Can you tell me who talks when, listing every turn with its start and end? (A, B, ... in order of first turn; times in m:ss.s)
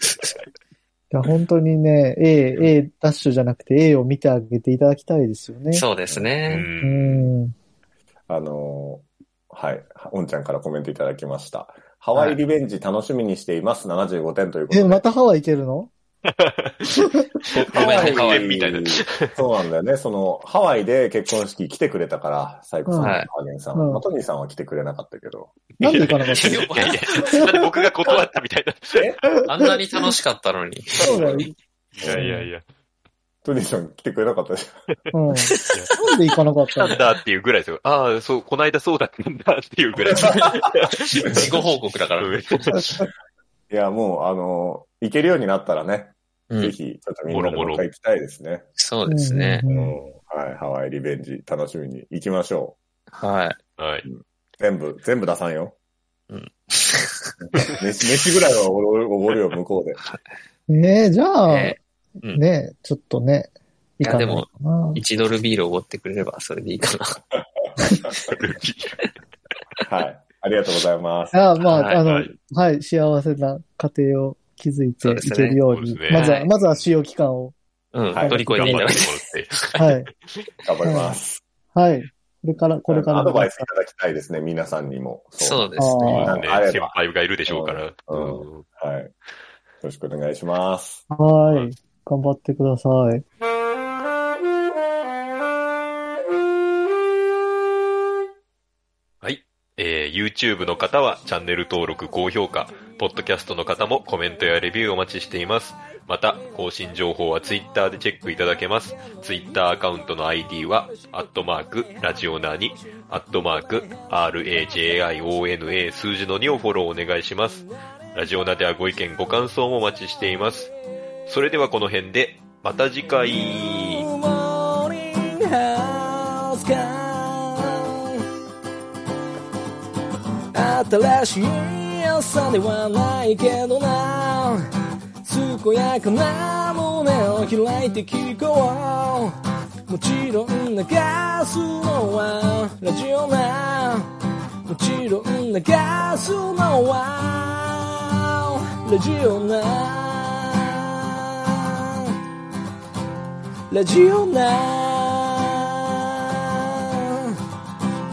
0:01.1-0:05.8 A
0:05.7-0:06.7 B
0:06.5-0:07.3 C
0:06.8-0:07.5 A
0:08.3-0:15.0 D
0:12.2-0:12.4 B
0:14.7-0:15.9 A
0:16.3-0:19.3 C
0:17.6-0:25.6 D
0:17.7-0:18.6 B
0:22.9-0:23.2 A
0:23.0-0:23.3 B
0:23.8-0:24.0 A
0:25.8-0:27.6 A
0:25.8-0:29.1 C
0:26.3-0:27.4 B
0:28.9-0:29.2 D
0:29.4-0:29.7 A
0:29.4-0:31.5 B
0:31.0-0:31.5 D
0:31.0-0:31.5 A
0:32.0-0:32.6 C
0:32.0-0:32.3 D
0:32.1-0:32.5 A
0:33.4-0:34.7 D
0:35.1-0:37.0 A
0:35.5-0:36.0 B
0:36.7-0:41.5 C
0:40.1-0:40.5 D
0:41.2-0:42.7 B
0:42.2-0:43.1 C
0:43.7-0:48.7 D
0:46.5-0:46.8 B
0:47.3-0:47.9 C
0:48.8-0:49.6 B
0:49.1-0:50.0 A
0:49.7-0:52.8 D
0:53.1-0:53.6 B
0:53.8-0:54.0 C
0:54.1-0:55.8 D
0:56.3-0:57.7 B
0:57.6-1:00.0 D
1:00.7-1:01.8 A
1:01.5-1:02.4 B
1:02.3-1:05.0 A
1:04.0-1:07.2 B
1:08.1-1:09.0 C
1:09.8-1:11.4 D
1:11.3-1:17.6 A
1:11.7-1:12.0 B
1:12.0-1:12.3 C
1:15.0-1:15.6 B
1:15.7-1:16.8 C
1:16.1-1:16.5 B
1:17.9-1:19.6 B
1:18.1-1:18.4 D
1:18.2-1:19.1 A
1:18.5-1:19.9 C
1:19.8-1:20.1 A
1:20.6-1:21.4 D
1:20.8-1:21.2 A
1:21.7-1:23.6 A
1:22.9-1:27.0 D
1:25.4-1:26.4 B
1:25.8-1:26.3 A
1:26.3-1:28.7 C
1:27.5-1:29.1 D
1:29.8-1:31.0 D
1:31.1-1:33.2 A
1:39.2-2:00.7 C
2:01.3-2:04.1 C
2:03.8-2:08.2 E
2:10.5-2:14.6 E
2:15.2-2:19.3 E
2:19.9-2:24.1 E
2:24.7-2:32.1 E
2:33.7-2:37.3 E